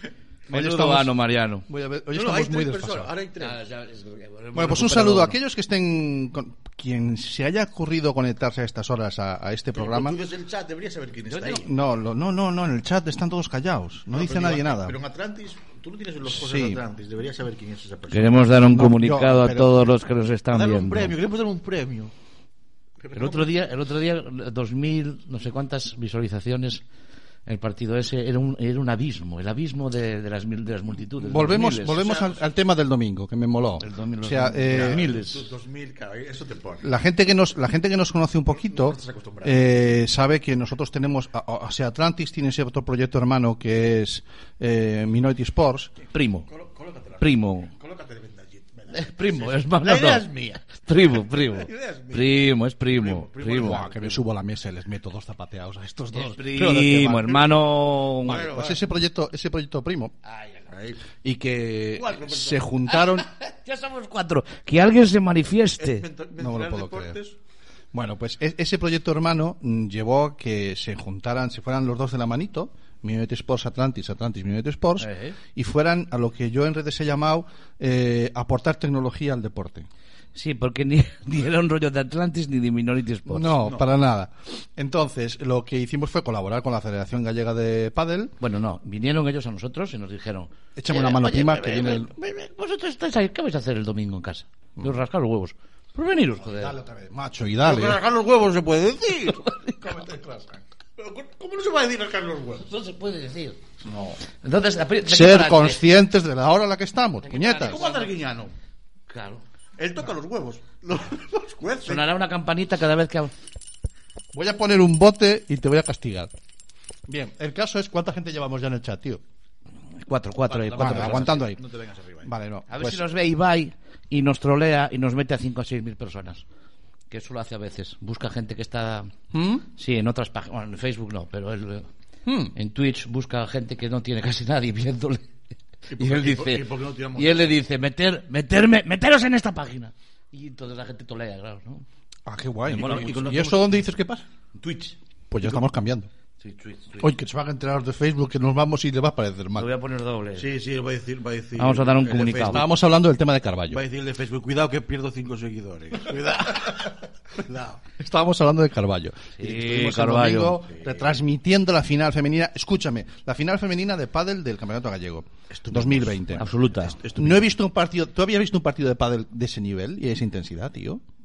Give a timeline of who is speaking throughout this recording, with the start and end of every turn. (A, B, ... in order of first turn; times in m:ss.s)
0:00.5-0:01.1 A
0:00.5-0:01.6 B
0:01.7-0:03.1 A
0:02.1-0:03.7 C
0:03.4-0:05.4 B
0:04.5-0:10.2 A
0:09.7-0:11.7 C
0:11.4-0:15.0 A
0:14.1-0:19.7 C
0:16.3-0:16.8 A
0:18.1-0:21.1 B
0:18.7-0:19.5 A
0:20.5-0:22.1 C
0:23.0-0:23.5 C
0:23.1-0:26.8 B
0:27.4-0:32.3 B
0:31.2-0:35.1 A
0:33.8-0:35.5 B
0:34.7-0:36.8 C
0:36.8-0:45.9 A
0:38.7-0:39.7 C
0:46.1-0:46.5 B
0:46.5-0:54.1 C
0:47.2-0:47.7 B
0:48.9-0:53.9 B
0:53.5-0:57.4 A
0:56.1-0:58.4 B
0:58.2-0:58.8 C
0:58.2-1:00.1 A
1:00.2-1:00.7 B
1:00.7-1:01.0 C
1:01.2-1:03.3 A
1:01.9-1:02.7 C
1:02.9-1:06.0 B
1:05.8-1:07.4 C
1:06.4-1:07.2 A
1:07.9-1:19.9 A
1:15.0-1:15.4 B
1:20.3-1:23.6 B
1:23.2-1:28.3 A
1:23.6-1:23.9 C
1:28.4-1:36.8 B
1:30.8-1:32.1 A
1:36.5-1:38.0 A
1:37.6-1:39.4 C
1:39.3-1:39.8 B
1:39.8-1:40.6 A
1:41.0-1:42.7 C
1:42.6-1:43.6 B
1:43.8-1:44.1 C
1:44.4-1:45.8 B
1:45.0-1:47.8 A
1:47.2-1:48.1 B
1:47.6-1:48.5 C
1:49.1-1:49.4 B
1:49.8-1:52.1 C
1:51.8-1:53.3 B
1:54.3-1:56.3 A
1:57.1-1:59.2 A
2:00.0-2:01.4 B
2:00.5-2:02.3 C
2:00.7-2:01.6 A
2:02.2-2:03.0 A
2:02.7-2:06.4 B
2:07.1-2:09.1 B
2:09.3-2:09.6 A
2:09.7-2:11.9 B
2:12.2-2:12.5 A
2:12.5-2:15.3 B
2:15.9-2:21.8 B
2:15.9-2:17.6 C
2:22.2-2:24.2 A
2:22.7-2:23.8 C
2:22.7-2:23.1 B
2:24.6-2:24.9 C
2:25.3-2:26.1 A
2:26.4-2:27.1 B
2:27.0-2:29.7 A
2:29.5-2:30.4 B
2:30.4-2:32.7 C
2:31.6-2:32.6 B
2:32.4-2:33.8 A
2:33.7-2:37.8 C
2:38.0-2:46.5 A
2:39.4-2:40.6 B
2:40.7-2:41.1 C
2:45.5-2:47.5 C
2:46.3-2:47.0 B
2:47.2-2:51.0 A